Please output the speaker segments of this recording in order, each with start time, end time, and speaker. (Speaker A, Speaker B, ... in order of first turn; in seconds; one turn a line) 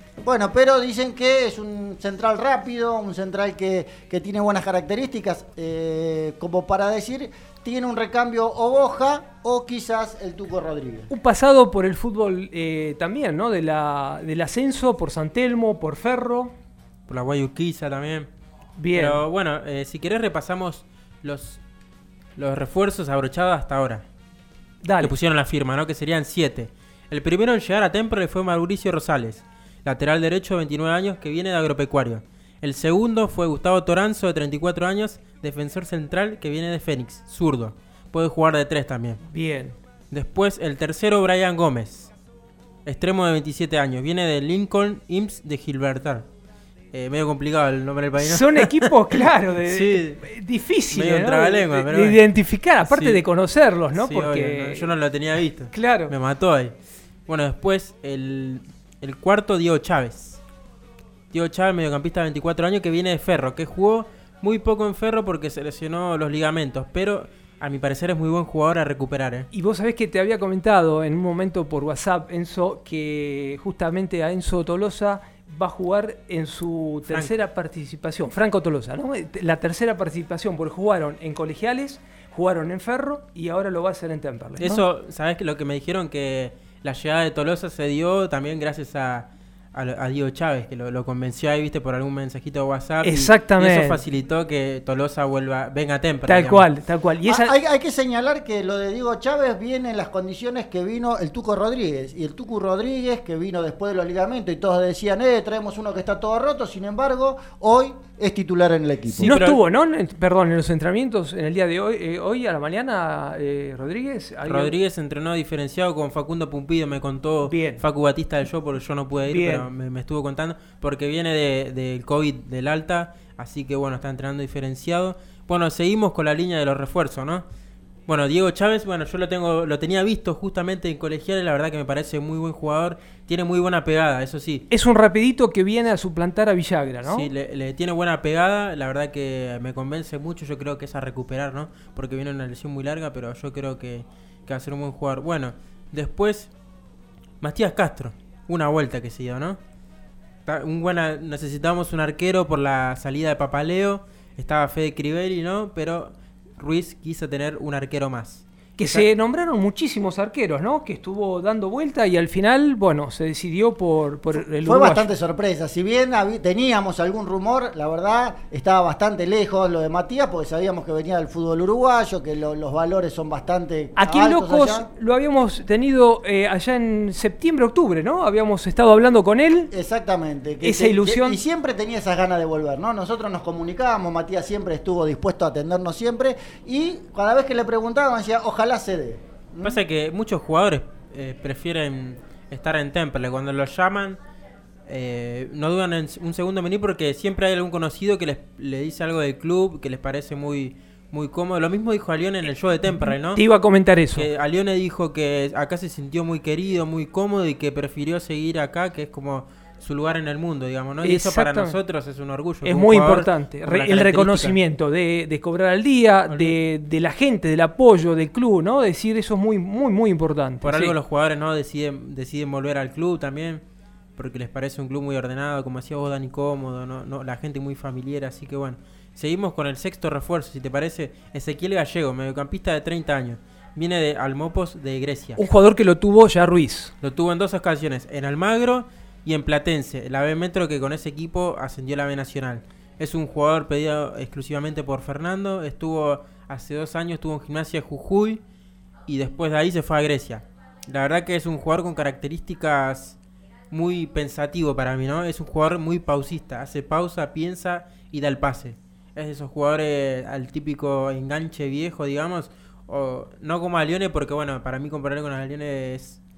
Speaker A: 0.2-11.1
Speaker B: 11.1-16.5
Speaker C: 17.1-18.3
Speaker B: 18.8-19.2
Speaker C: 18.9-21.6
Speaker C: 22.4-24.0
Speaker B: 24.8-25.1
Speaker C: 25.0-39.2
Speaker B: 39.3-39.8
Speaker C: 40.1-42.1
Speaker C: 42.9-46.2
Speaker C: 46.9-50.2
Speaker B: 48.2-54.9
Speaker C: 50.9-52.2
Speaker C: 52.8-53.2
Speaker C: 53.9-56.7
Speaker B: 55.7-56.1
Speaker C: 57.3-60.4
Speaker C: 61.3-69.5
Speaker B: 69.5-84.8
Speaker C: 77.0-77.3
Speaker C: 84.6-96.7
Speaker B: 93.0-94.0
Speaker B: 96.3-97.5
Speaker A: 97.2-109.3
Speaker C: 109.1-109.6
Speaker B: 109.2-114.7
Speaker C: 114.5-127.4
Speaker B: 117.4-117.8
Speaker B: 119.3-119.7
Speaker C: 128.1-134.7
Speaker B: 134.7-137.3
Speaker C: 137.0-146.5
Speaker C: 147.4-149.6
Speaker C: 150.4-159.1
Speaker B: 158.8-165.1
Speaker A: 164.3-174.9
Speaker B: 174.0-179.7
Speaker A: 179.7-189.8
Speaker B: 180.6-181.4
Speaker C: 189.6-194.2
Speaker C: 194.9-203.4
Speaker B: 202.9-204.3
Speaker C: 204.1-214.6
Speaker B: 211.0-211.8
Speaker B: 212.6-220.9
Speaker C: 216.3-216.5
Speaker C: 220.6-223.6
Speaker C: 224.2-235.4
Speaker B: 235.4-236.9
Speaker C: 237.0-248.4
Speaker C: 249.1-253.2
Speaker C: 253.7-266.2